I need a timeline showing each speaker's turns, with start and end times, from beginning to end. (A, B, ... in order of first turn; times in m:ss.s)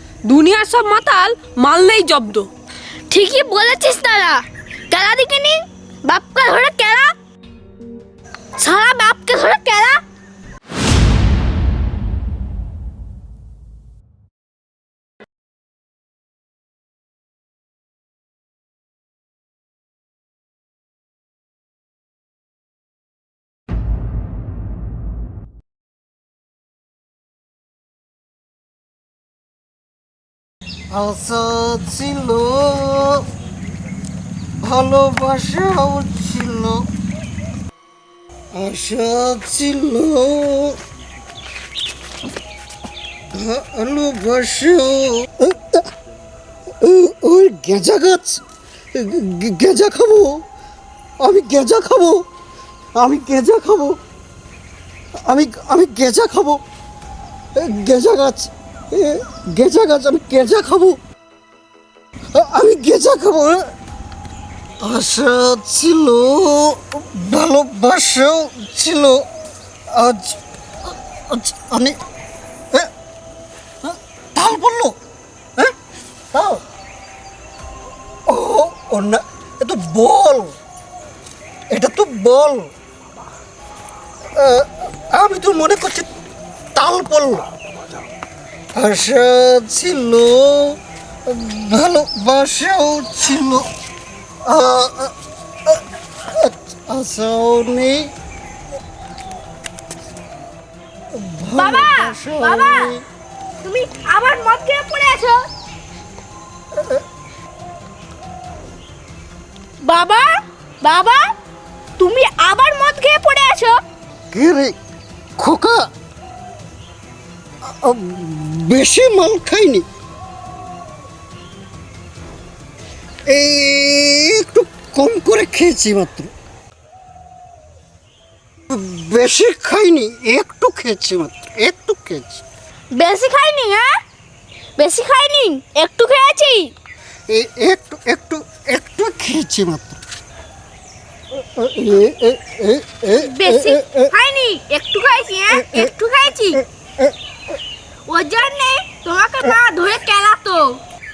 0:00.3-0:02.5 A
0:03.1-0:07.1 B
0:08.6-0:10.0 B
0:30.9-0:33.2 C
0:34.6-0:36.9 C
0:38.5-0:40.8 C
0:43.3-0:45.8 C
0:46.8-0:48.4 C
0:48.9-0:50.4 C
0:51.2-0:52.2 C
0:53.0-0:54.0 C
0:55.2-0:56.6 C
0:57.6-1:01.0 C
1:02.3-1:03.6 C
1:04.8-1:09.3 C
1:09.9-1:10.4 C
1:11.3-1:12.0 C
1:13.8-1:15.0 C
1:16.3-1:16.6 C
1:18.3-1:20.6 C
1:21.7-1:22.7 C
1:24.4-1:26.1 C
1:26.8-1:27.5 C
1:28.8-1:33.7 C
1:34.4-1:35.1 C
1:35.7-1:38.1 C
1:41.1-1:43.0 C
1:41.5-1:42.9 B
1:43.6-1:45.4 B
1:49.8-1:51.3 B
1:52.0-1:53.8 B
1:54.3-1:54.8 C
1:55.4-1:55.8 C
1:57.6-1:59.8 C
2:03.3-2:06.3 C
2:08.7-2:12.4 C
2:12.9-2:13.9 B
2:14.8-2:16.7 B
2:17.3-2:20.0 C
2:21.3-2:24.1 C
2:23.2-2:26.6 B
2:28.1-2:30.8 B